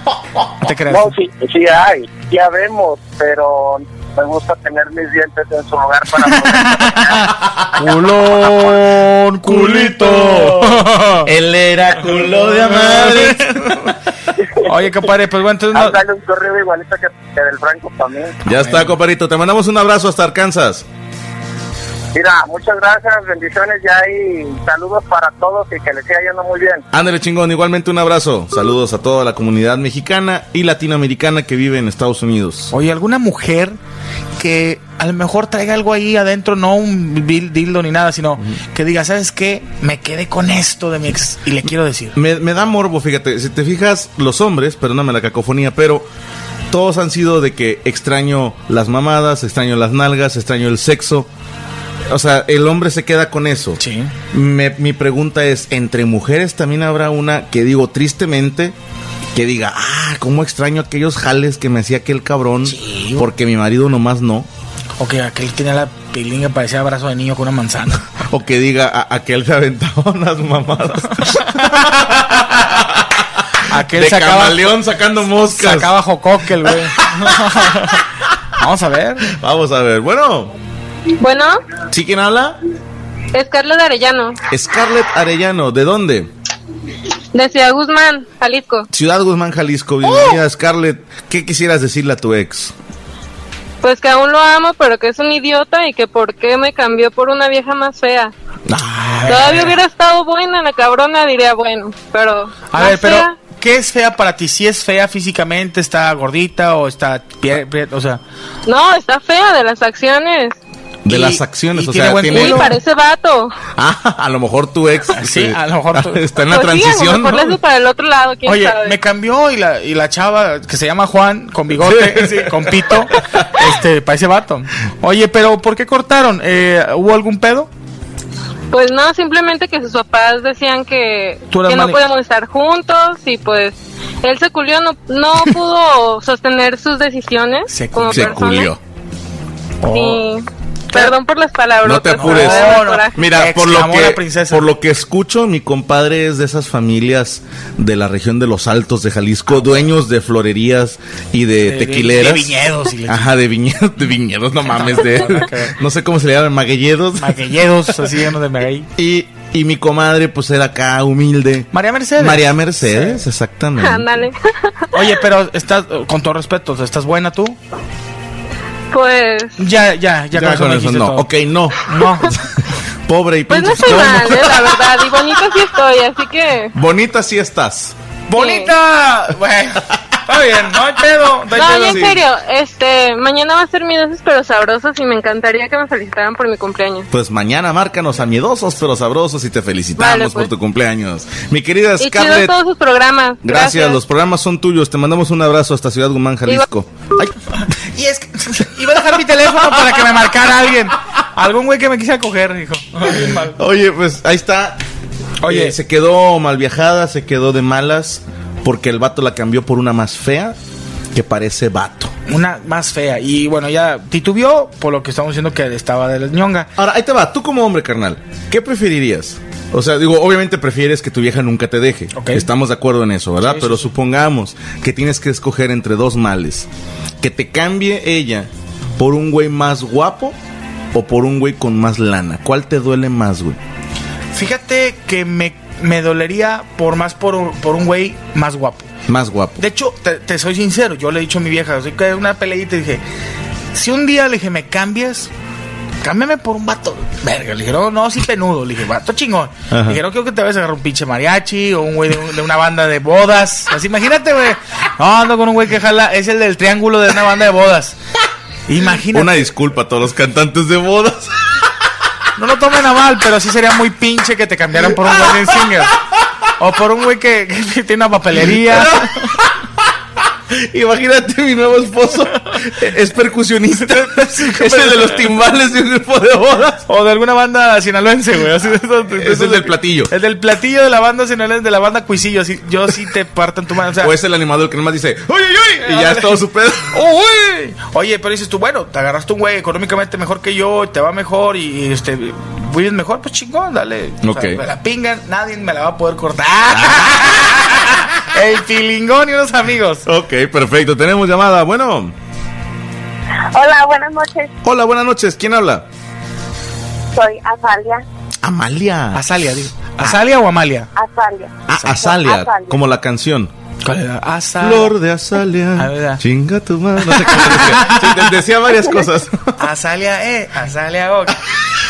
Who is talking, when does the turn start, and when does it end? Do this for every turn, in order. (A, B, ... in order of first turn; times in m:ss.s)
0:00.6-0:01.1 A
0:00.9-0:07.2 B
0:06.2-0:11.3 A
0:09.4-0:13.8 C
0:12.1-0:13.9 A
0:14.6-0:16.0 A
0:15.7-0:18.4 B
0:18.4-0:20.8 C
0:18.5-0:18.9 A
0:22.1-0:26.8 B
0:26.9-0:32.7 C
0:32.7-0:33.8 A
0:34.4-0:42.2 A
0:42.1-0:46.1 C
0:46.7-0:51.3 C
0:52.1-0:53.8 C
0:53.8-0:54.1 A
0:54.3-0:58.7 C
0:59.3-1:04.5 C
1:02.6-1:03.2 A
1:05.0-1:08.0 A
1:08.3-1:13.2 C
1:11.4-1:11.8 A
1:13.7-1:14.8 A
1:13.8-1:15.9 C
1:15.3-1:18.0 A
1:16.6-1:17.9 C
1:18.6-1:19.3 A
1:19.3-1:20.6 C
1:21.2-1:21.6 D
1:21.9-1:22.6 C
1:23.3-1:24.4 D
1:24.5-1:26.3 C
1:27.3-1:28.9 D
1:28.9-1:32.7 C
1:33.8-1:38.3 D
1:38.7-1:39.6 C
1:39.1-1:39.7 A
1:39.3-1:43.3 D
1:42.7-1:48.2 A
1:48.6-1:50.6 D
1:51.0-1:52.8 C
1:51.1-1:52.8 A
1:52.2-1:53.6 D
1:53.8-1:57.6 C
1:55.2-1:56.2 A
1:56.5-1:59.0 D
1:58.4-2:07.7 A
2:01.8-2:02.7 C
2:08.7-2:18.7 D
2:11.5-2:12.0 A
2:17.7-2:18.4 A
2:18.1-2:18.8 C
2:19.8-2:20.2 A
2:19.9-2:23.2 D
2:21.8-2:32.5 C
2:22.1-2:24.7 A
2:31.6-2:33.2 A
2:33.0-2:37.5 C
2:34.7-2:35.8 A
2:37.2-2:38.9 A
2:39.0-2:44.3 C
2:41.7-2:43.2 A
2:43.8-2:45.0 D
2:44.9-2:47.6 A
2:48.9-2:49.6 D
2:49.6-2:51.3 A
2:50.3-2:52.4 C
2:51.8-2:52.4 A
2:53.1-2:55.1 C
2:53.5-2:56.7 D
2:56.7-2:57.9 C
2:58.3-3:02.2 A
2:58.3-2:58.7 D
3:01.5-3:07.1 D
3:01.8-3:02.2 C
3:07.1-3:12.5 C
3:10.0-3:10.5 D
3:12.0-3:14.0 D
3:13.4-3:17.3 C
3:17.9-3:23.6 A
3:23.3-3:24.8 C
3:25.4-3:25.8 A
3:25.4-3:30.6 C
3:31.1-3:32.1 C
3:32.3-3:36.7 A
3:36.8-3:46.7 C
3:42.1-3:42.5 A
3:43.4-3:43.9 A
3:47.2-3:50.4 C
3:50.9-3:53.6 C
3:54.3-3:58.9 A
3:59.1-3:59.6 C
3:59.6-4:03.0 A
4:03.7-4:05.3 A
4:06.0-4:18.0 A
4:09.7-4:10.0 C
4:18.7-4:19.5 A
4:19.1-4:21.5 C
4:22.4-4:26.0 A
4:25.0-4:25.7 C
4:26.6-4:29.2 A
4:28.7-4:29.5 C
4:30.5-4:36.8 C
4:33.9-4:35.2 A
4:36.9-4:44.1 A
4:39.1-4:40.1 C
4:44.0-4:46.9 C
4:45.8-5:00.0 A
4:54.2-4:54.6 C
4:56.7-4:57.2 C
5:00.0-5:02.1 C
5:03.5-5:04.5 E
5:04.6-5:05.8 C
5:07.1-5:08.0 E
5:08.4-5:09.2 C
5:09.1-5:10.9 A
5:11.0-5:12.8 E
5:11.7-5:13.5 C
5:13.8-5:15.0 A
5:14.6-5:19.6 C
5:15.8-5:16.2 A
5:17.0-5:18.3 A
5:19.6-5:21.4 A